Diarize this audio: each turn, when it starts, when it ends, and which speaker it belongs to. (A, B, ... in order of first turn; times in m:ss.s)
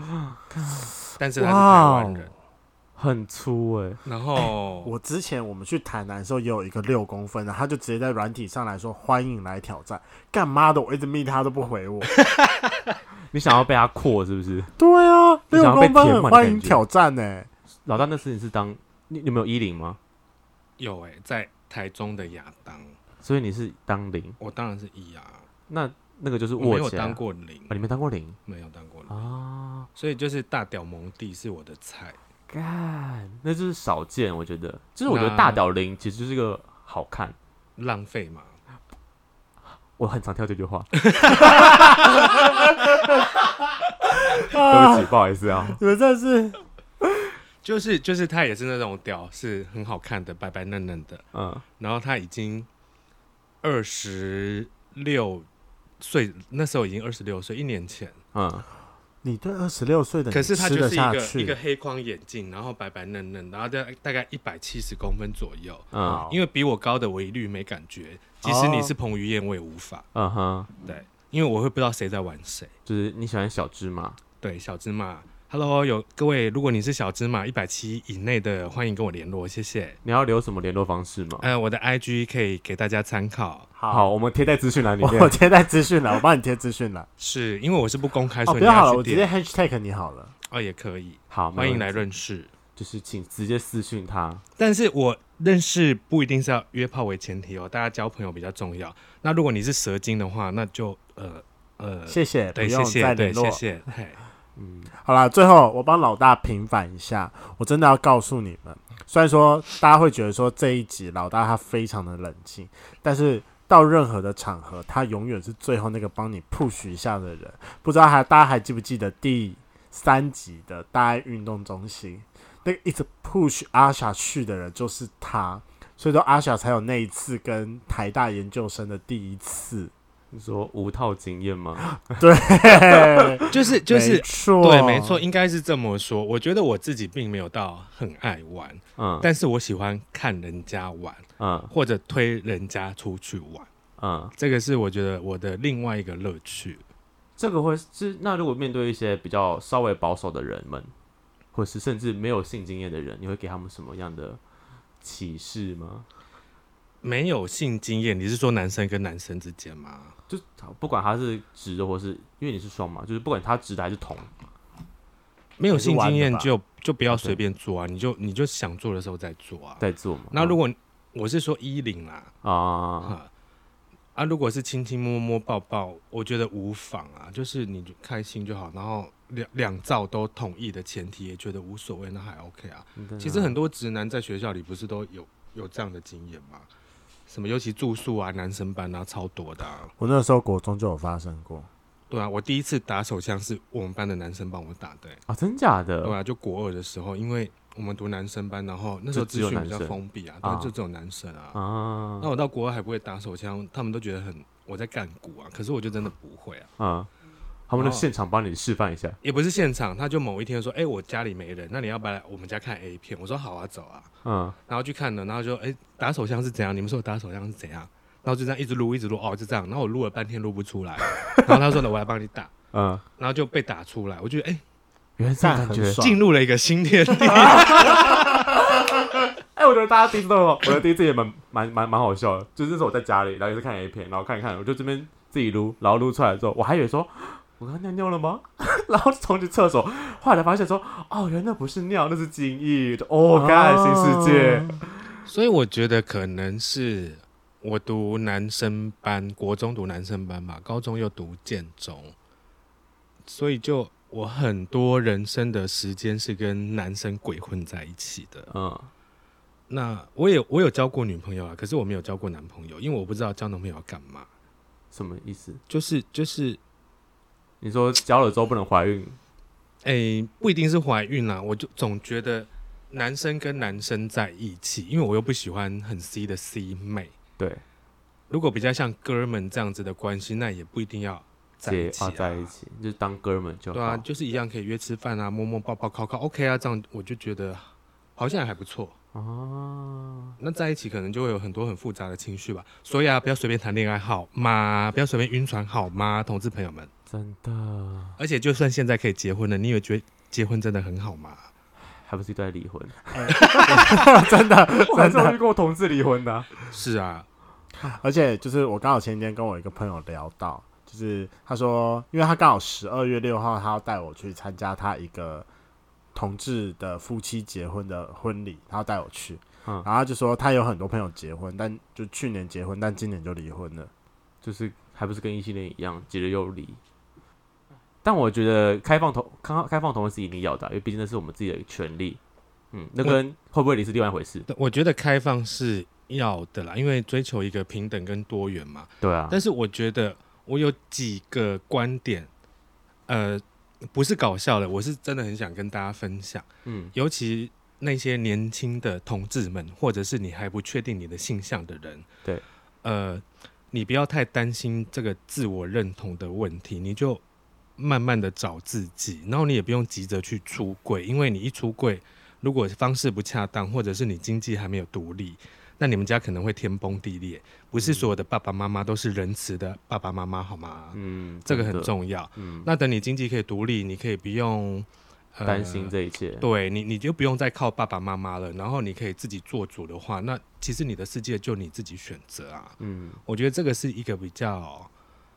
0:00.3-0:00.9 A
0:01.2-0:02.3 B
0:01.4-0:02.3 C
0:03.0-0:04.0 A
0:04.0-0:04.9 B
0:04.8-0:12.1 C
0:12.2-0:13.0 B
0:13.3-0:14.7 A
0:14.8-0:17.5 C
0:15.5-0:16.8 A
0:17.9-0:20.0 A
0:20.8-0:23.0 B
0:23.2-0:24.4 A
0:24.4-0:25.5 B
0:25.7-0:28.4 A
0:26.6-0:27.8 B
0:28.5-0:29.2 B
0:29.1-0:29.9 A
0:30.0-0:32.2 B
0:32.5-0:37.4 A
0:35.1-0:35.6 B
0:37.8-0:38.6 B
0:40.0-0:42.3 A
0:41.0-0:41.8 B
0:44.2-0:45.1 C
0:44.4-0:45.8 A
0:45.7-0:46.6 C
0:47.6-0:51.2 B
0:51.3-0:51.6 A
0:51.8-0:52.7 B
0:53.6-0:55.5 B
0:56.0-0:58.2 B
0:58.3-0:58.7 A
0:59.2-1:01.6 C
1:00.3-1:10.1 B
1:05.9-1:06.2 A
1:06.0-1:06.4 C
1:08.4-1:08.9 C
1:10.2-1:10.7 A
1:10.8-1:12.7 B
1:12.9-1:14.2 A
1:14.4-1:20.0 B
1:20.0-1:21.5 A
1:21.4-1:23.7 B
1:23.8-1:24.1 C
1:23.9-1:25.4 A
1:25.0-1:27.1 C
1:27.2-1:29.3 B
1:28.5-1:30.3 C
1:30.5-1:32.5 B
1:31.3-1:32.0 A
1:32.8-1:34.4 A
1:34.6-1:44.2 B
1:42.1-1:43.6 C
1:44.6-1:44.9 A
1:45.0-2:09.9 C
2:10.3-2:11.9 A
2:12.1-2:15.2 C
2:12.9-2:13.4 A
2:13.5-2:23.7 B
2:19.0-2:19.3 A
2:21.4-2:21.7 A
2:24.0-2:24.3 A
2:24.4-2:26.8 B
2:27.4-2:30.9 A
2:31.5-2:34.4 A
2:35.0-2:36.1 A
2:37.0-2:40.1 B
2:40.3-2:44.3 A
2:45.6-2:52.3 B
2:45.7-2:46.5 C
2:47.1-2:47.4 A
2:49.8-2:50.6 A
2:52.4-2:53.2 A
2:53.0-2:53.3 B
2:54.2-3:06.7 B
3:03.0-3:03.6 A
3:07.3-3:09.9 B
3:10.0-3:11.7 C
3:12.1-3:15.2 B
3:15.3-3:16.2 A
3:16.0-3:21.6 B
3:19.1-3:20.7 A
3:21.5-3:22.3 A
3:22.2-3:26.7 B
3:26.8-3:27.1 A
3:27.7-3:29.2 A
3:27.8-3:28.0 B
3:29.2-3:34.1 B
3:34.2-3:34.6 A
3:34.7-3:42.5 B
3:41.2-3:41.6 A
3:42.7-3:43.0 A
3:43.2-3:44.6 B
3:45.2-3:46.0 A
3:45.4-3:46.2 C
3:46.0-3:48.2 B
3:47.4-4:05.2 A
4:03.3-4:04.8 C
4:05.3-4:12.2 B
4:13.3-4:18.5 B
4:18.5-4:18.9 A
4:19.7-4:24.3 B
4:24.9-4:25.6 A
4:25.7-4:26.6 B
4:27.6-4:29.2 A
4:29.8-4:37.1 B
4:38.3-4:42.5 B
4:41.6-4:44.0 A
4:43.7-4:49.0 B
4:49.1-4:50.4 A
4:50.4-4:56.9 B
4:57.1-4:58.2 A
4:58.2-5:01.5 B
5:02.0-5:06.6 A
5:03.1-5:05.4 C
5:03.3-5:03.8 B
5:06.7-5:07.3 B
5:07.8-5:15.5 C
5:16.2-5:23.9 C
5:24.4-5:26.8 A
5:28.0-5:32.2 A
5:32.7-5:34.5 A
5:34.5-5:42.3 B
5:39.0-5:39.4 A
5:43.1-5:52.1 B
5:46.6-5:46.9 A
5:52.8-5:57.2 B
5:57.8-6:24.9 B
6:07.8-6:08.1 A
6:10.9-6:12.7 A
6:15.4-6:16.5 A
6:22.8-6:23.2 A